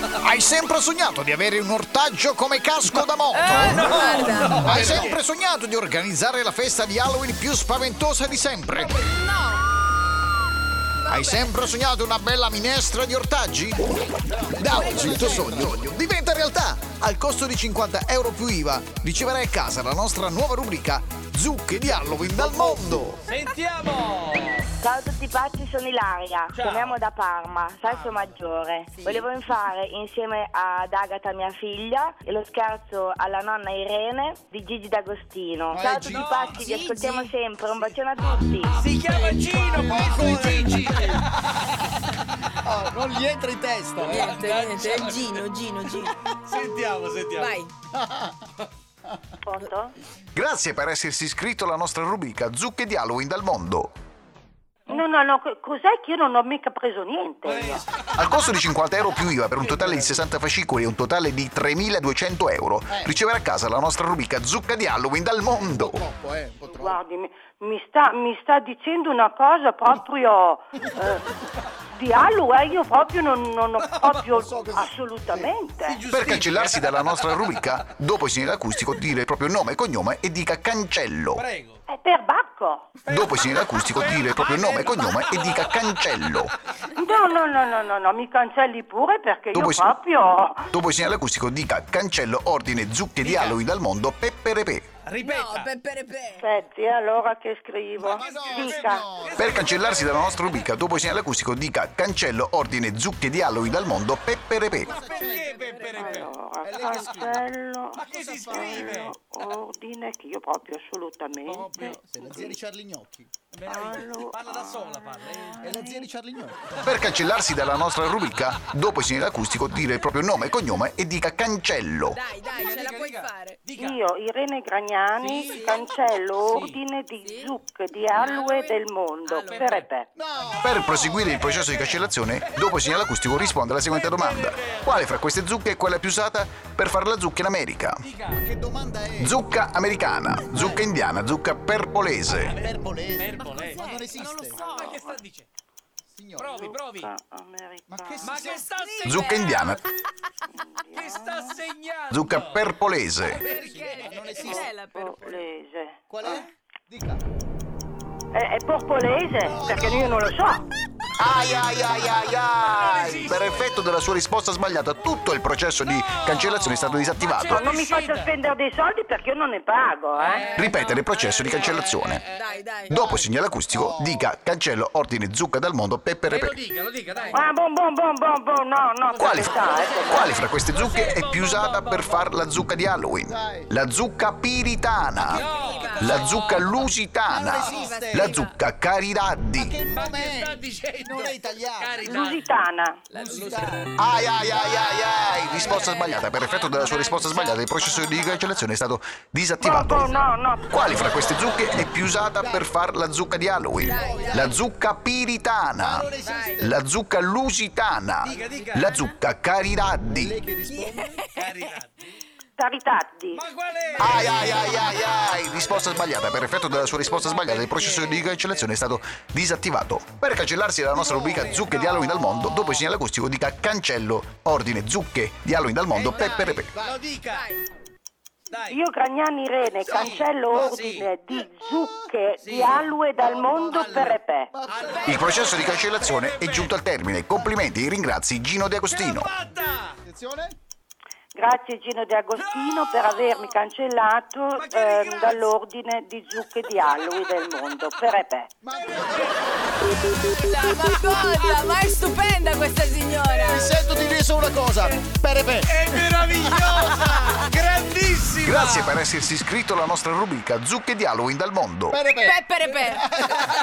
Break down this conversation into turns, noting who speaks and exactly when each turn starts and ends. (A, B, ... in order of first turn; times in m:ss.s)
0:00.2-0:03.9 A
0:03.0-0:05.2 B
0:03.3-0:05.0 C
0:04.6-0:09.0 A
0:04.8-0:05.1 D
0:08.7-0:09.6 C
0:11.0-0:11.7 C
0:11.1-0:13.8 A
0:14.4-0:15.8 D
0:14.6-0:23.2 A
0:14.7-0:15.7 C
0:22.4-0:22.8 D
0:23.3-0:24.7 B
0:24.8-0:38.8 E
0:26.5-0:27.0 B
0:35.7-0:36.3 D
0:36.1-0:36.7 B
0:36.6-0:37.3 C
0:38.7-0:41.5 B
0:39.5-0:41.2 D
0:42.6-0:44.4 D
0:44.0-0:46.2 C
0:44.1-0:45.4 B
0:46.3-0:47.6 B
0:47.4-0:47.7 C
0:48.0-0:48.3 D
0:49.4-0:49.9 F
0:50.4-0:53.9 A
0:54.9-0:57.9 F
0:57.4-0:58.3 B
0:58.1-1:06.0 A
0:59.8-1:00.1 D
1:05.7-1:07.0 D
1:06.6-1:11.3 F
1:11.9-1:16.0 F
1:13.8-1:14.5 B
1:14.4-1:15.5 D
1:15.8-1:17.8 B
1:16.1-1:21.4 A
1:21.4-1:21.8 B
1:21.9-1:22.9 F
1:23.0-1:25.9 B
1:23.1-1:26.6 A
1:27.0-1:30.7 F
1:29.5-1:29.9 A
1:30.7-1:34.9 A
1:33.2-1:33.6 B
1:35.0-1:35.7 B
1:35.2-1:36.5 C
1:36.4-1:39.1 F
1:38.0-1:40.7 B
1:38.2-1:39.4 D
1:39.3-1:44.9 A
1:44.8-1:45.6 D
1:44.9-1:46.4 B
1:45.1-1:46.2 C
1:46.0-1:52.6 F
1:46.6-1:47.5 D
1:47.9-1:49.2 B
1:48.1-1:49.1 D
1:51.5-1:51.8 B
1:51.6-1:53.3 D
1:53.5-1:55.6 B
1:53.7-1:56.1 F
1:55.6-1:57.1 D
1:56.8-2:02.2 A
2:02.1-2:03.6 C
2:02.5-2:04.0 B
2:03.8-2:10.1 F
2:05.2-2:06.8 B
2:07.2-2:07.6 C
2:08.1-2:09.8 C
2:09.4-2:09.8 B
2:10.2-2:11.2 D
2:10.6-2:18.0 A
2:10.9-2:13.0 B
2:13.9-2:15.0 B
2:18.0-2:18.5 B
2:18.4-2:19.3 D
2:19.2-2:22.6 A
2:20.5-2:20.8 D
2:22.3-2:25.5 B
2:22.5-2:24.8 D
2:23.5-2:25.2 C
2:26.1-2:26.6 D
2:26.4-2:27.1 B
2:26.6-2:28.2 F
2:27.9-2:28.7 D
2:28.2-2:29.8 B
2:28.7-2:29.8 C
2:29.0-2:29.8 A
2:30.6-2:31.6 F
2:30.9-2:32.7 B
2:32.1-2:33.4 A
2:33.2-2:34.7 B
2:33.3-2:35.4 C
2:33.6-2:34.8 D
2:34.8-2:36.0 F
2:36.1-2:37.2 D
2:38.3-2:40.6 F
2:39.4-2:40.3 D
2:41.2-2:47.8 A
2:42.6-2:43.7 B
2:45.8-2:48.3 B
2:47.6-2:50.4 F
2:50.2-2:52.6 B
2:50.6-2:52.2 A
2:50.6-2:53.1 C
2:52.9-2:56.6 A
2:52.9-2:54.2 D
2:56.3-2:57.5 B
2:57.1-2:57.4 C
2:57.3-3:00.4 F
2:59.1-3:02.3 B
2:59.2-2:59.6 A
3:00.1-3:05.4 A
3:03.3-3:03.7 D
3:05.2-3:06.8 B
3:05.3-3:06.6 C
3:06.0-3:09.8 A
3:07.3-3:08.4 D
3:07.6-3:08.6 C
3:09.6-3:12.0 D
3:09.8-3:12.6 B
3:12.0-3:13.0 F
3:13.1-3:13.9 D
3:13.1-3:13.9 B
3:14.0-3:20.2 A
3:14.7-3:16.7 B
3:15.5-3:15.8 D
3:15.7-3:18.3 C
3:19.6-3:21.2 F
3:20.7-3:26.1 A
3:22.4-3:22.7 D
3:23.8-3:24.6 C
3:23.8-3:24.5 D
3:25.8-3:26.7 D
3:26.2-3:26.7 C
3:26.6-3:30.4 A
3:28.2-3:28.7 D
3:28.3-3:29.0 B
3:30.1-3:31.2 D
3:30.7-3:31.5 C
3:31.3-3:32.2 B
3:32.6-3:33.4 F
3:33.3-3:36.2 B
3:34.0-3:46.7 A
3:37.0-3:39.0 B
3:41.0-3:42.8 B
3:45.9-3:47.5 B
3:46.0-3:46.7 C
3:46.8-3:47.0 D
3:47.3-3:47.7 C
3:48.5-3:48.8 B
3:48.7-3:54.5 F
3:49.8-3:51.1 B
3:52.4-3:56.8 B
3:53.3-3:53.8 D
3:54.5-3:55.2 D
3:54.9-3:55.3 C
3:55.0-3:59.3 A
3:58.9-4:00.0 B
4:00.0-4:00.6 D
4:01.4-4:08.5 F
4:02.4-4:03.6 B
4:04.6-4:05.5 B
4:06.8-4:07.8 B
4:08.6-4:10.6 D
4:08.8-4:09.5 B
4:10.1-4:13.7 C
4:13.4-4:17.4 D
4:15.6-4:19.0 B
4:18.4-4:22.0 A
4:21.9-4:23.4 D
4:22.2-4:23.1 C